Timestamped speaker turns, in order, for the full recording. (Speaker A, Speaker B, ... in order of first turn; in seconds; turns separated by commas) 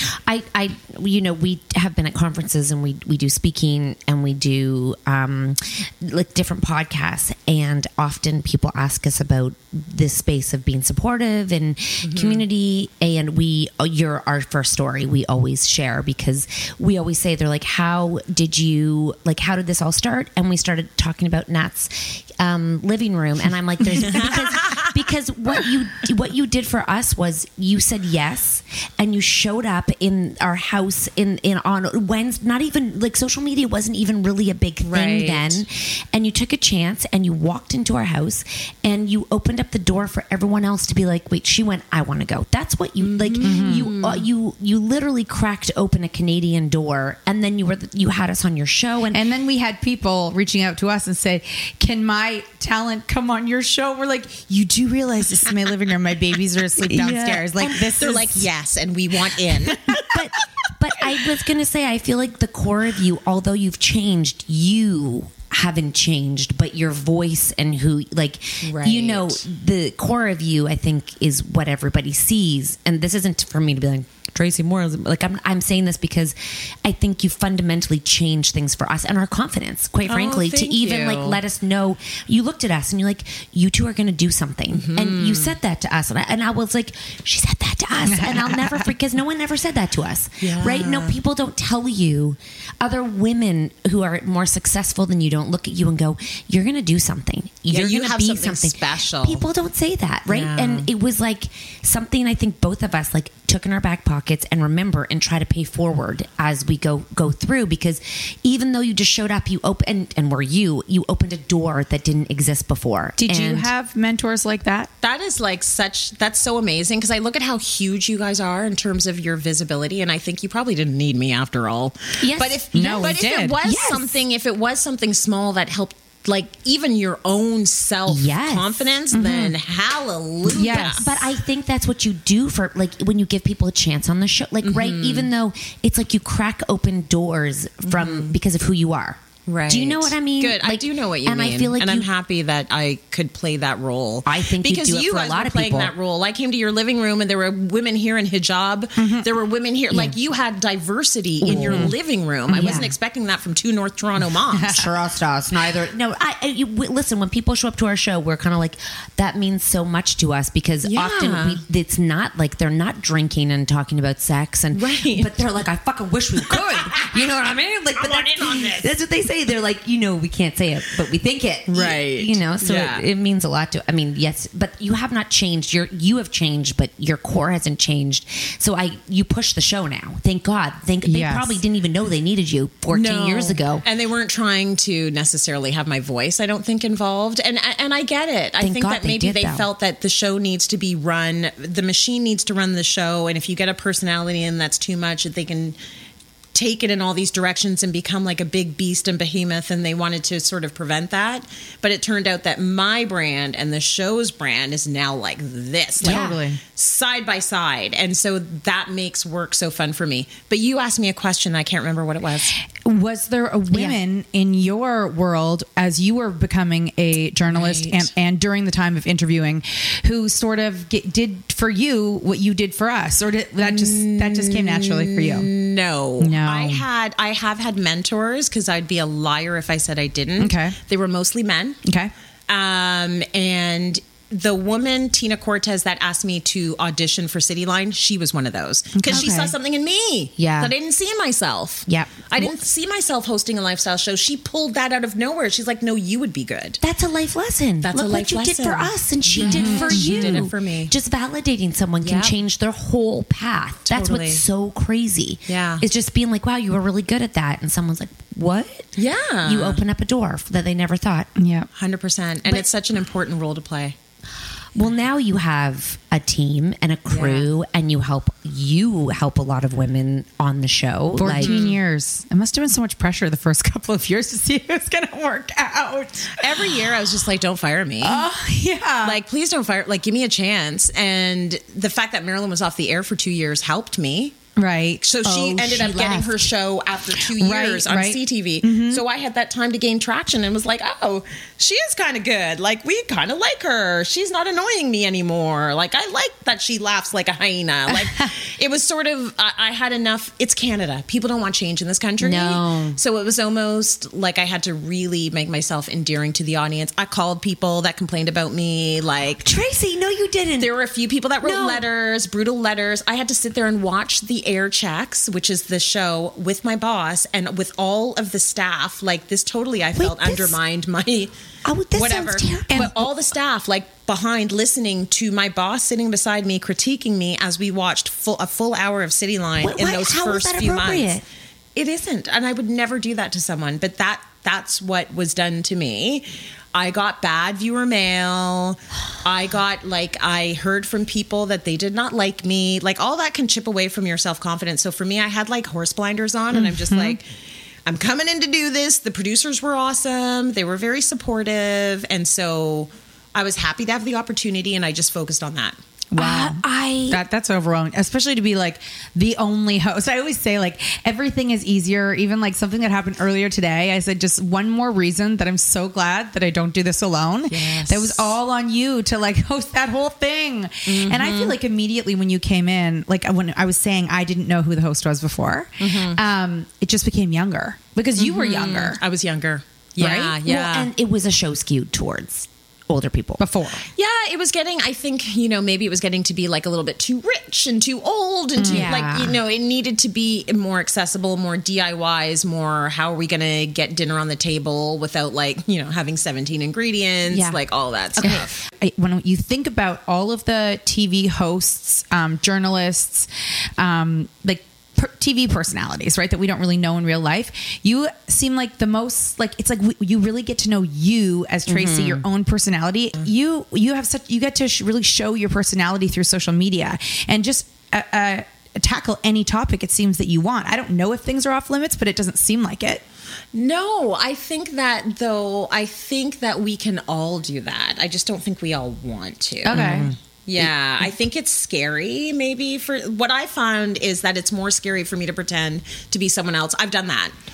Speaker A: 0.3-49.2, Speaker B: 12.0-12.4, Speaker B: 24.0-24.8, Speaker B: 34.8-35.6, Speaker B: 43.0-44.3, Speaker C: 43.4-43.9, Speaker C: 49.1-58.5, Speaker A: 56.9-57.8, Speaker B: 57.7-60.0, Speaker A: 60.1-113.7, Speaker B: 68.6-69.4, Speaker B: 80.1-81.4, Speaker B: 84.7-85.6, Speaker C: 88.1-88.8, Speaker B: 90.4-91.2, Speaker B: 97.7-99.4, Speaker B: 100.3-100.9, Speaker C: 113.2-114.9, Speaker B: 115.0-131.1, Speaker A: 122.2-123.1, Speaker C: 122.7-123.6, Speaker A: 123.6-124.2, Speaker A: 128.1-128.9, Speaker C: 129.1-129.6, Speaker C: 130.5-131.1, Speaker A: 130.8-142.1, Speaker B: 134.6-135.3, Speaker B: 137.9-138.4, Speaker B: 139.5-154.9, Speaker A: 144.2-145.9, Speaker C: 149.0-149.3, Speaker A: 149.9-150.2, Speaker A: 151.4-151.9, Speaker C: 151.5-152.0, Speaker C: 152.5-152.9, Speaker A: 152.5-152.9, Speaker A: 154.7-183.8, Speaker B: 160.8-161.6, Speaker B: 164.7-165.3, Speaker B: 166.5-167.2, Speaker B: 168.0-168.9, Speaker B: 171.7-173.1, Speaker C: 181.1-181.6, Speaker B: 182.9-195.8, Speaker A: 188.6-189.7, Speaker B: 196.6-212.6, Speaker C: 206.0-206.6, Speaker A: 206.0-206.4, Speaker C: 212.8-225.5, Speaker A: 213.7-214.0, Speaker B: 217.5-218.1, Speaker B: 223.6-231.8, Speaker C: 226.2-226.9, Speaker C: 230.4-230.8, Speaker C: 231.8-232.1, Speaker B: 232.5-246.8, Speaker C: 238.9-239.5, Speaker A: 239.1-239.4, Speaker A: 240.4-240.7, Speaker A: 241.9-242.6, Speaker A: 246.8-258.9, Speaker B: 247.8-250.9, Speaker C: 249.4-250.4, Speaker B: 252.0-252.4, Speaker B: 253.9-254.4, Speaker B: 255.5-255.8, Speaker B: 259.0-259.8, Speaker A: 259.4-261.3, Speaker C: 261.4-261.7, Speaker B: 261.8-264.0, Speaker A: 264.8-271.6, Speaker B: 267.1-267.5, Speaker C: 271.2-276.8, Speaker B: 271.4-271.8, Speaker B: 276.4-278.3, Speaker C: 278.0-279.2, Speaker B: 279.0-284.4, Speaker C: 284.6-286.0, Speaker B: 285.0-309.4, Speaker A: 285.8-286.3, Speaker C: 287.2-289.0, Speaker A: 302.2-303.0, Speaker A: 309.4-310.7, Speaker B: 310.6-321.3, Speaker A: 311.4-311.8, Speaker A: 319.9-320.6, Speaker A: 321.6-323.0, Speaker B: 321.9-331.2, Speaker C: 322.7-323.0, Speaker A: 329.6-331.2, Speaker B: 331.8-347.2, Speaker C: 346.5-347.2, Speaker B: 347.9-355.8, Speaker C: 356.1-379.0, Speaker A: 356.2-357.2, Speaker B: 367.5-368.4, Speaker B: 370.9-371.6, Speaker B: 375.8-376.2, Speaker B: 378.2-380.9, Speaker C: 380.0-380.4, Speaker A: 380.4-383.4, Speaker C: 383.4-383.9, Speaker B: 384.0-398.6, Speaker C: 388.6-388.9, Speaker A: 388.7-389.4, Speaker A: 397.3-397.6, Speaker C: 398.2-423.0, Speaker A: 411.7-412.2, Speaker B: 423.5-437.3, Speaker C: 429.6-430.1, Speaker A: 429.7-430.1